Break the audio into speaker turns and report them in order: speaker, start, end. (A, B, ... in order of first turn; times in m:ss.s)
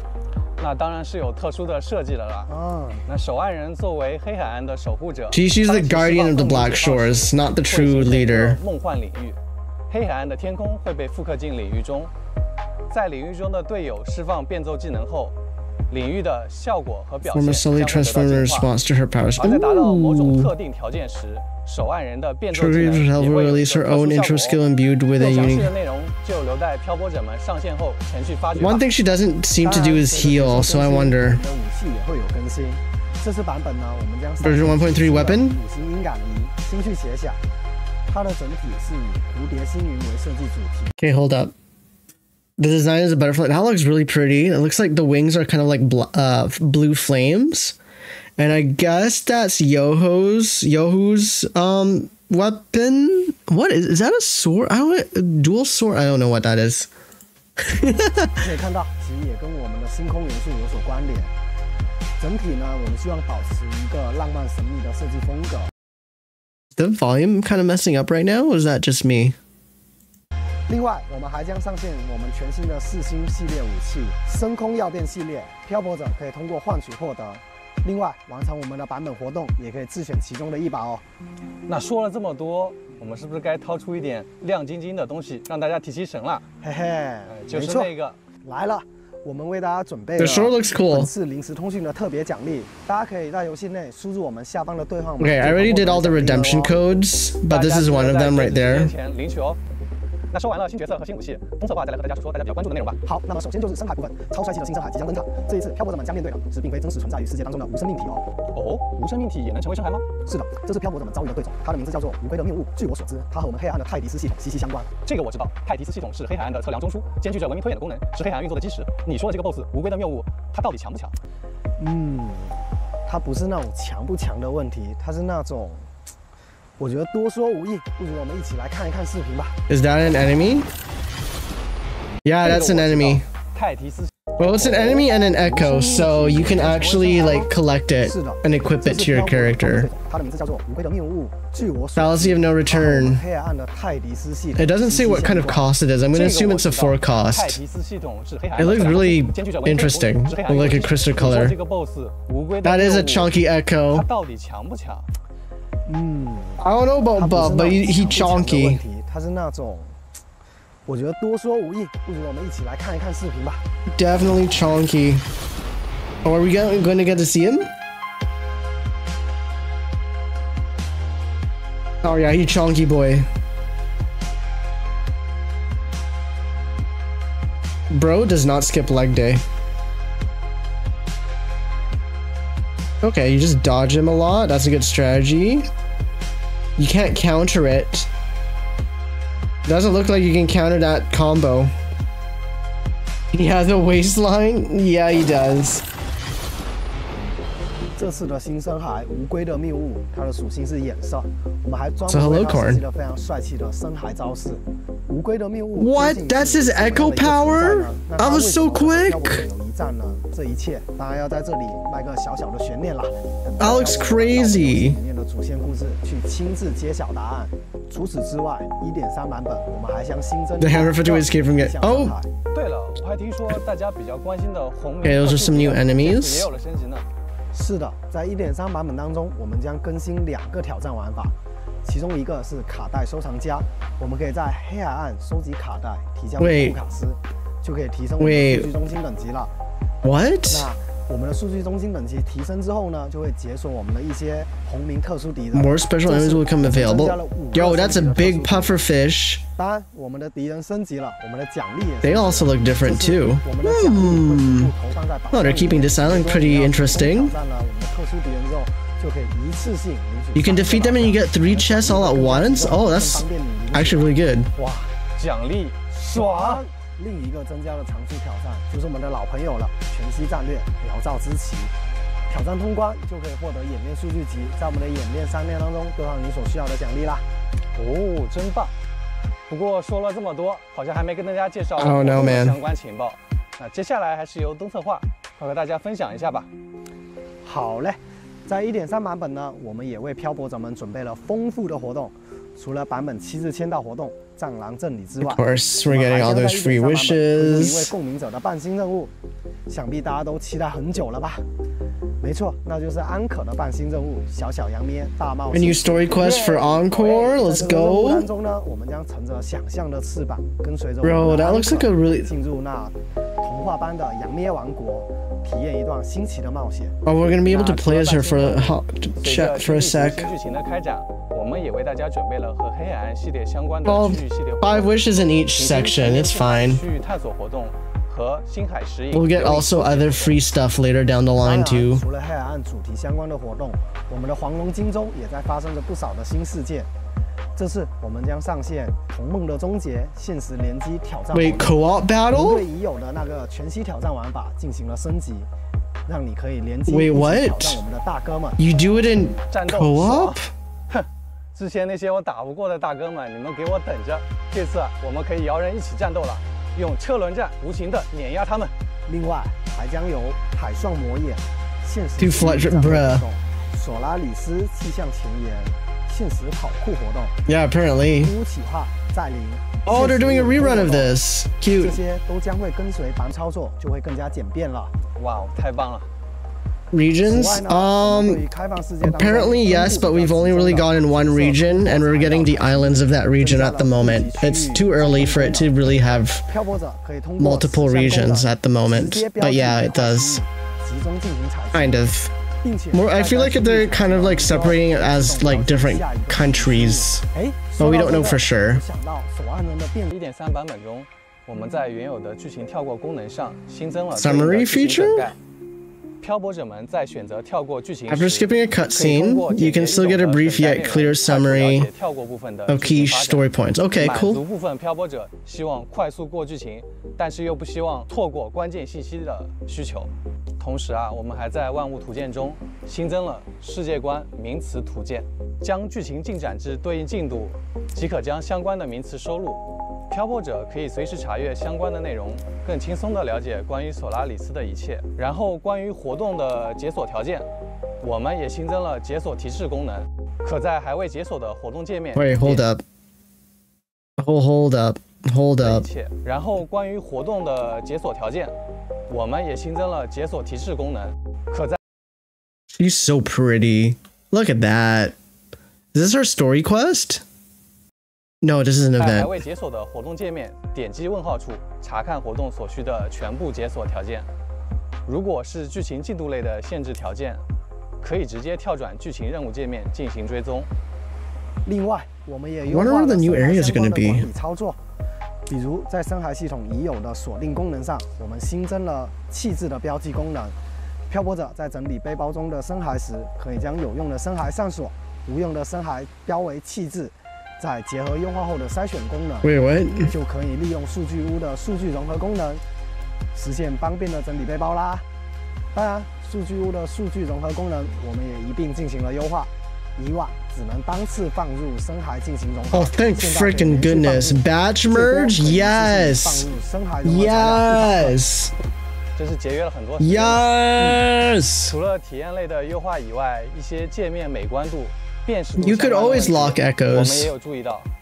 0:00.6-0:02.5 A
0:02.5-0:03.0 B
0:03.0-0:09.4 A
0:05.3-0:08.6 C
0:09.9-0:12.1 A
0:12.9-0:15.4 A
0:15.9-0:18.7 A
0:17.2-0:20.5 C
0:19.4-0:24.6 A
0:22.5-0:25.7 C
0:25.2-0:28.8 A
0:28.6-0:31.4 C
0:29.6-0:37.4 B
0:34.4-0:35.6 C
0:38.1-0:40.9 B
0:41.0-0:41.5 C
0:42.6-0:47.8 C
0:48.4-0:56.9 C
0:57.6-0:58.4 C
0:58.4-1:01.3 B
1:02.2-1:05.7 B
1:06.8-1:09.4 C
1:10.7-1:21.0 B
1:21.7-1:26.4 A
1:26.6-1:27.9 B
1:27.3-1:28.2 A
1:28.4-1:36.8 B
1:30.2-1:31.1 C
1:35.2-1:38.9 C
1:37.5-1:39.6 A
1:40.3-1:43.0 A
1:43.0-1:48.3 B
1:48.5-1:50.1 A
1:50.2-1:54.9 B
1:55.1-2:01.2 A
2:01.8-2:02.6 B
2:03.1-2:05.9 B
2:06.8-2:09.6 B
2:09.7-2:10.7 C
2:12.2-2:13.3 C
2:12.4-2:15.0 A
2:14.4-2:19.9 C
2:15.3-2:25.7 B
2:22.0-2:23.2 C
2:24.6-2:27.6 C
2:26.1-2:33.3 A
2:28.6-2:31.6 C
2:32.6-2:34.1 C
2:33.9-2:35.1 A
2:35.9-2:36.6 B
2:36.6-2:38.8 C
2:37.2-2:40.0 B
2:40.9-2:43.6 B
2:44.0-2:45.2 C
2:46.2-2:47.7 C
2:52.0-2:53.3 C
2:57.9-2:59.4 C
3:03.0-3:05.7 C
3:06.8-3:08.1 C
3:09.6-3:11.7 C
3:13.3-3:15.8 C
3:18.0-3:42.3 B
3:22.0-3:22.8 C
3:25.8-3:29.5 C
3:33.6-3:35.0 C
3:40.6-3:42.2 C
3:42.5-3:47.0 A
3:45.0-3:46.5 C
3:47.5-3:59.5 B
3:56.4-3:56.8 C
3:58.2-3:58.7 C
4:00.0-4:00.7 C
4:00.5-4:08.8 B
4:05.5-4:09.4 C
4:09.6-4:24.1 B
4:12.0-4:14.7 C
4:15.3-4:17.3 C
4:20.3-4:24.5 C
4:24.6-4:26.6 A
4:26.1-4:31.7 B
4:32.3-4:37.2 B
4:37.8-4:38.7 A
4:39.5-4:46.5 A
4:41.8-4:42.6 C
4:47.4-4:59.1 B
4:55.2-4:57.9 C
4:59.7-5:01.4 B
5:02.2-5:17.0 B
5:05.5-5:08.3 C
5:11.0-5:12.3 C
5:17.0-5:20.3 C
5:17.4-5:24.9 A
5:23.8-5:26.8 C
5:25.6-5:30.4 A
5:29.1-5:32.0 C
5:31.4-5:36.9 B
5:37.6-5:41.7 B
5:41.3-5:42.6 C
5:42.3-5:45.5 B
5:46.1-5:48.6 B
5:46.9-5:47.8 C
5:48.6-5:50.5 C
5:49.5-5:58.7 A
5:59.1-6:07.4 B
6:02.2-6:03.2 C
6:07.5-6:08.3 C
6:08.2-6:11.1 B
6:09.8-6:12.0 C
6:11.8-6:14.9 B
6:15.2-6:16.1 A
6:16.9-6:18.4 C
6:17.2-6:32.0 B
6:19.0-6:26.4 C
6:27.4-6:30.4 C
6:31.7-6:32.3 C
6:32.6-6:40.1 B
6:32.9-6:37.2 C
6:37.8-6:38.8 C
6:40.1-6:45.4 A
6:44.1-6:45.3 C
6:46.2-7:17.5 A
6:48.1-6:51.9 C
6:52.7-6:54.4 C
7:18.0-7:22.7 A
7:22.2-7:22.8 C
7:24.2-7:25.9 C
7:25.6-7:28.5 A
7:29.1-7:31.8 A
7:32.7-7:35.2 C
7:35.9-7:37.2 C
7:38.4-7:39.4 C
7:39.0-7:44.3 A
7:45.1-7:47.4 A
7:48.0-7:50.7 A
7:51.6-7:54.8 B
7:52.6-7:54.3 C
7:55.5-8:00.6 B
8:01.1-8:12.6 B
8:09.4-8:10.1 C
8:13.3-8:15.0 B
8:15.7-8:28.2 B
8:22.7-8:26.5 C
8:27.0-8:28.5 C
8:29.2-8:30.5 A
8:30.0-8:31.7 C
8:31.6-8:37.9 A
8:35.6-8:37.3 C